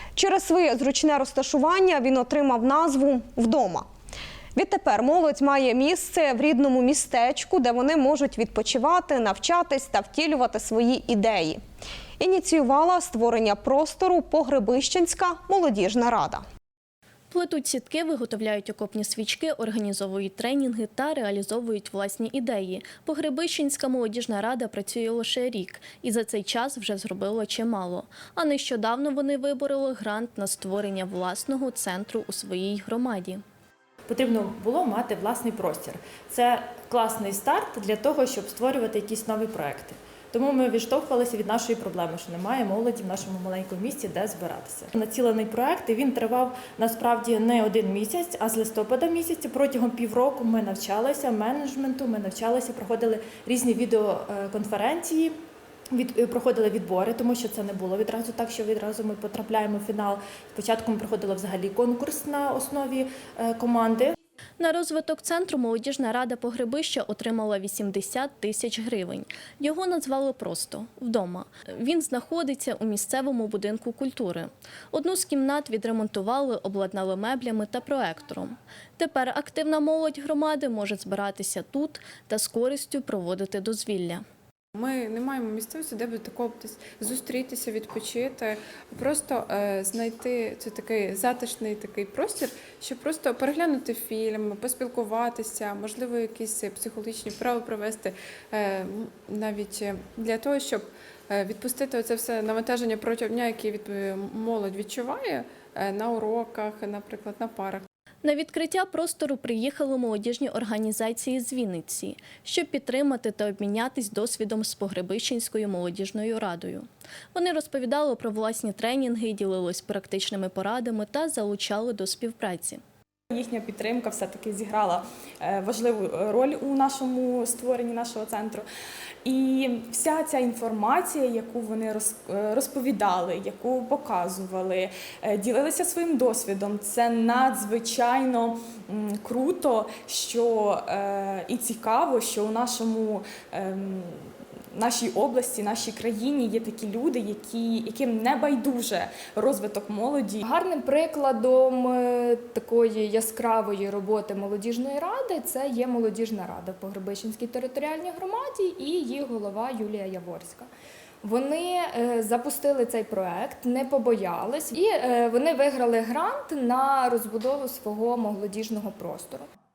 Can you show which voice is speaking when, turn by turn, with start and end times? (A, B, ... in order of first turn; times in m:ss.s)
0:00.2-0:03.8 A
0:04.6-0:11.6 A
0:12.2-0:16.4 A
0:17.3-0:33.4 B
0:34.1-0:55.3 C
0:55.9-1:04.1 C
1:04.6-1:24.2 B
1:24.7-1:47.8 D
1:48.2-2:02.8 B
2:03.3-2:08.6 E
2:09.2-2:30.4 E
2:30.4-2:40.7 F
2:41.2-2:49.4 F